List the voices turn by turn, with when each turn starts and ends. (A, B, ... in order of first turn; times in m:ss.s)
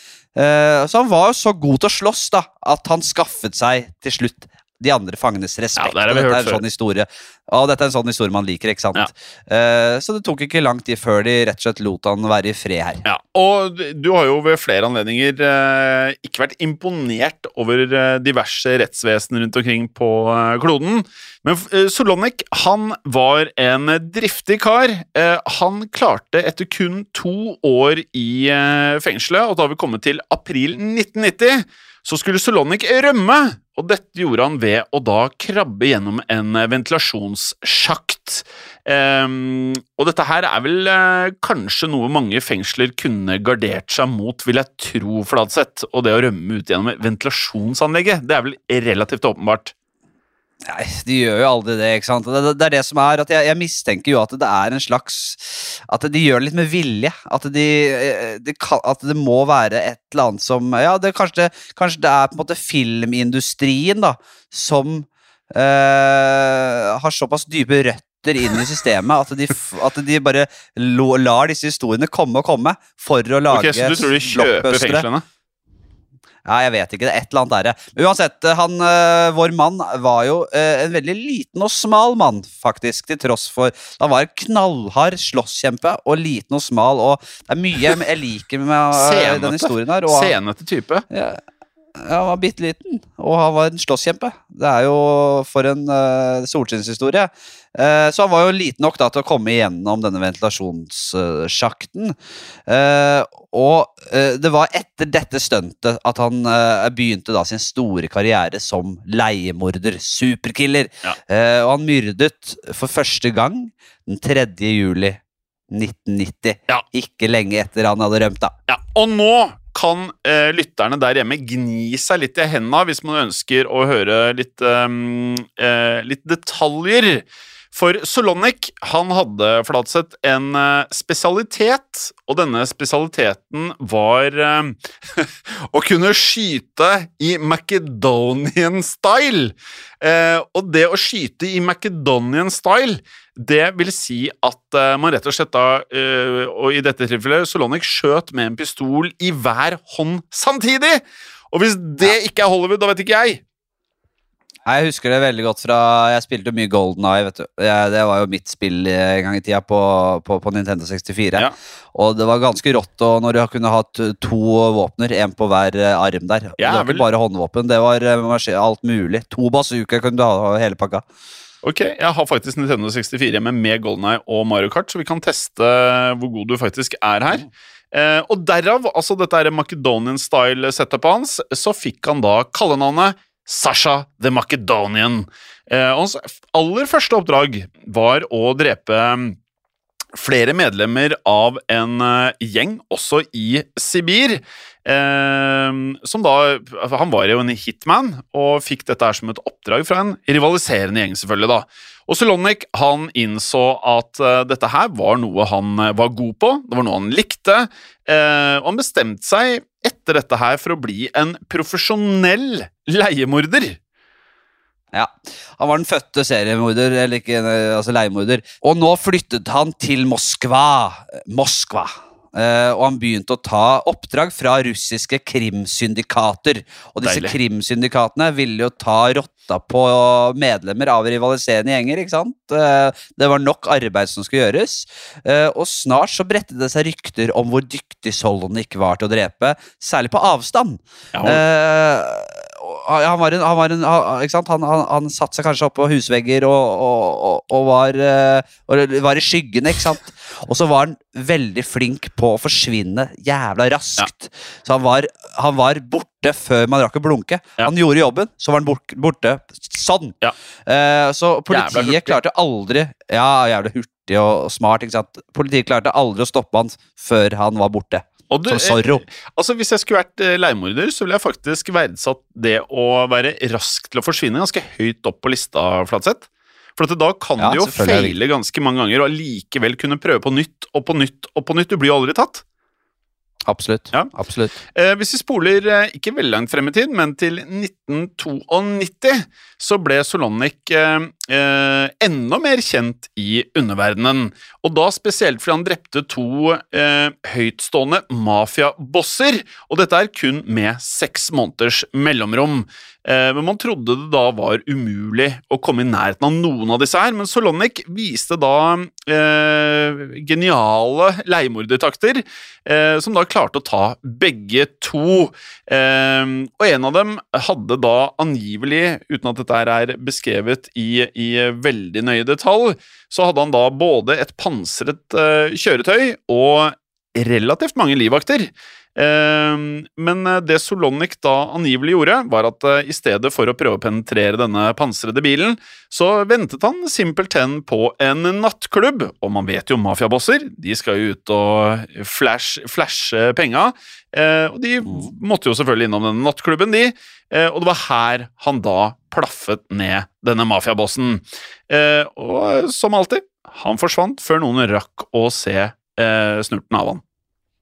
0:00.4-0:13.0 A
0:05.8-0:06.6 B
0:13.0-0:49.7 B
0:50.6-1:15.1 A
1:13.5-1:15.2 B
1:16.4-1:30.3 A
1:28.9-1:31.0 B
1:31.1-1:31.4 A
1:32.0-1:58.5 A
1:58.7-2:33.4 B
2:34.7-2:51.0 A
2:46.6-2:47.1 B
2:51.6-3:09.4 B
3:10.2-3:33.8 B
3:34.9-4:29.0 A
3:47.0-3:47.4 B
4:01.1-4:01.4 B
4:21.5-4:22.2 B
4:28.3-4:36.3 B
4:36.8-4:42.4 B
4:37.4-4:38.2 A
4:43.5-4:44.6 A
4:44.7-5:57.0 B